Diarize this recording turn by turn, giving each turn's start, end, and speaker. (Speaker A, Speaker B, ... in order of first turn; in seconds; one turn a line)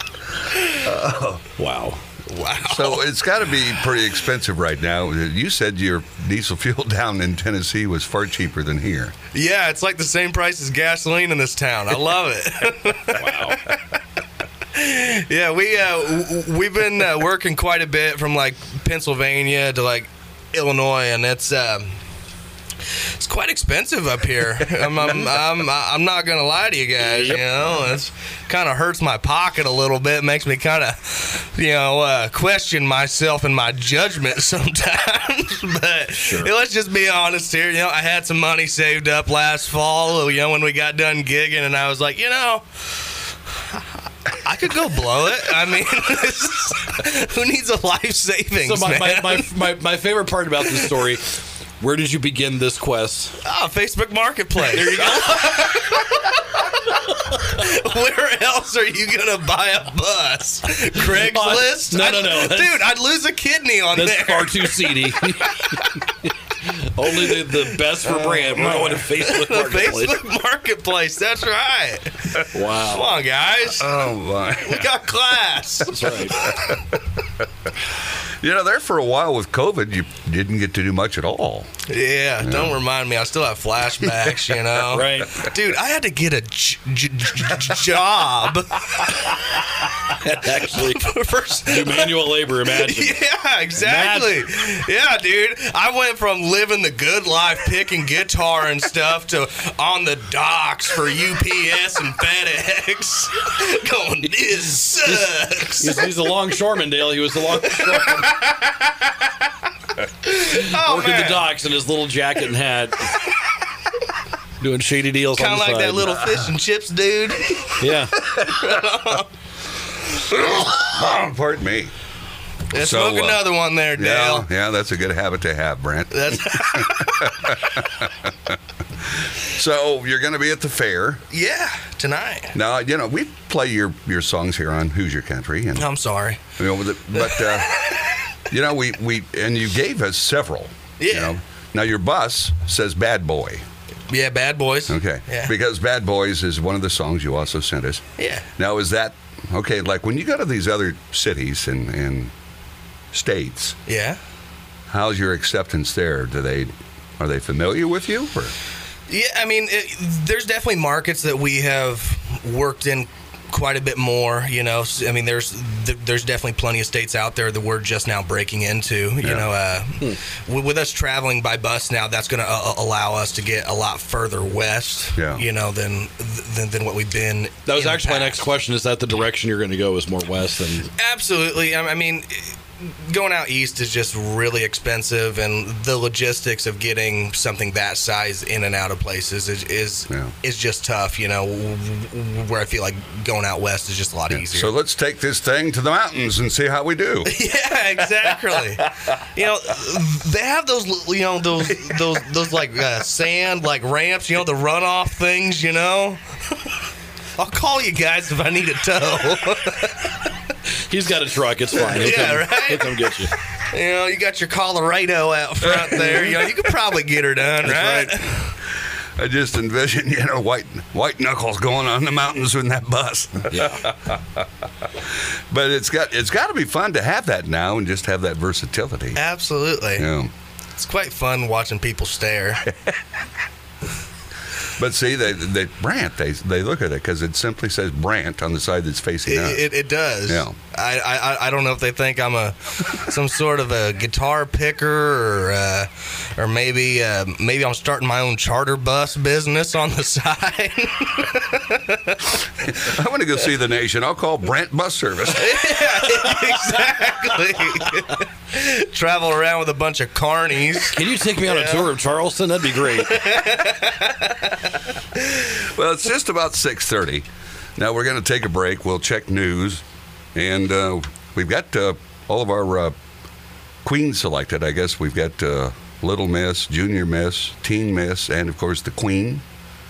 Speaker A: 0.8-1.4
Speaker B: 1.6-2.0
Speaker C: 2.3-3.0
Speaker A: 2.6-9.1
Speaker C: 9.3-13.8
Speaker B: 13.2-13.7
Speaker C: 14.7-21.9
Speaker C: 22.9-43.1
Speaker B: 27.0-28.0
Speaker B: 36.2-36.5
Speaker C: 44.3-49.5
Speaker B: 48.6-53.3
Speaker C: 50.6-50.9
Speaker C: 53.4-66.1
Speaker B: 54.6-55.8
Speaker B: 61.0-62.9
Speaker B: 63.9-66.1
Speaker B: 66.7-70.2
Speaker C: 67.1-67.8
Speaker A: 68.1-68.9
Speaker C: 68.6-74.0
Speaker B: 72.5-73.1
Speaker A: 73.8-75.0
Speaker C: 74.6-76.8
Speaker B: 75.9-76.4
Speaker A: 76.3-77.0
Speaker A: 78.4-81.7
Speaker C: 81.9-89.7
Speaker A: 82.4-82.8
Speaker A: 84.0-84.5
Speaker B: 84.9-85.4
Speaker B: 90.2-91.1
Speaker C: 90.7-106.1
Speaker B: 91.7-93.2
Speaker B: 93.8-94.4
Speaker B: 104.9-108.3
Speaker C: 107.7-109.5
Speaker C: 110.2-111.5
Speaker B: 110.5-113.2
Speaker B: 114.6-116.2
Speaker C: 115.3-119.3
Speaker B: 117.8-118.2
Speaker A: 120.3-121.9
Speaker C: 122.7-124.5
Speaker A: 122.7-131.2
Speaker C: 126.1-127.4
Speaker C: 131.3-132.6
Speaker A: 132.5-135.9
Speaker C: 135.8-136.4
Speaker A: 136.6-137.8
Speaker C: 137.2-138.2
Speaker A: 138.5-143.6
Speaker C: 141.0-141.3
Speaker C: 144.1-145.5
Speaker A: 144.9-148.0
Speaker C: 148.2-148.5
Speaker A: 148.6-152.3
Speaker A: 153.1-153.8
Speaker C: 153.9-154.2
Speaker A: 154.9-158.5
Speaker C: 159.1-178.4
Speaker A: 169.2-169.5
Speaker A: 175.2-175.4
Speaker B: 177.7-180.9
Speaker C: 181.0-194.7
Speaker A: 194.3-197.3
Speaker C: 197.2-206.7
Speaker A: 198.1-198.9
Speaker C: 207.4-210.3
Speaker B: 210.9-213.3
Speaker C: 211.8-213.0
Speaker C: 213.7-218.6
Speaker A: 215.6-216.6
Speaker A: 217.6-218.2
Speaker A: 219.2-224.4
Speaker B: 223.5-223.9
Speaker A: 225.5-229.2
Speaker C: 229.2-230.1
Speaker A: 230.0-230.3
Speaker C: 230.8-232.7
Speaker A: 234.8-239.7
Speaker C: 239.2-252.4
Speaker A: 240.3-240.6
Speaker A: 252.6-255.5
Speaker C: 255.3-261.9
Speaker B: 256.3-257.1
Speaker B: 260.9-263.2
Speaker C: 262.8-264.7
Speaker A: 265.6-269.8
Speaker A: 270.4-272.9
Speaker A: 273.8-279.4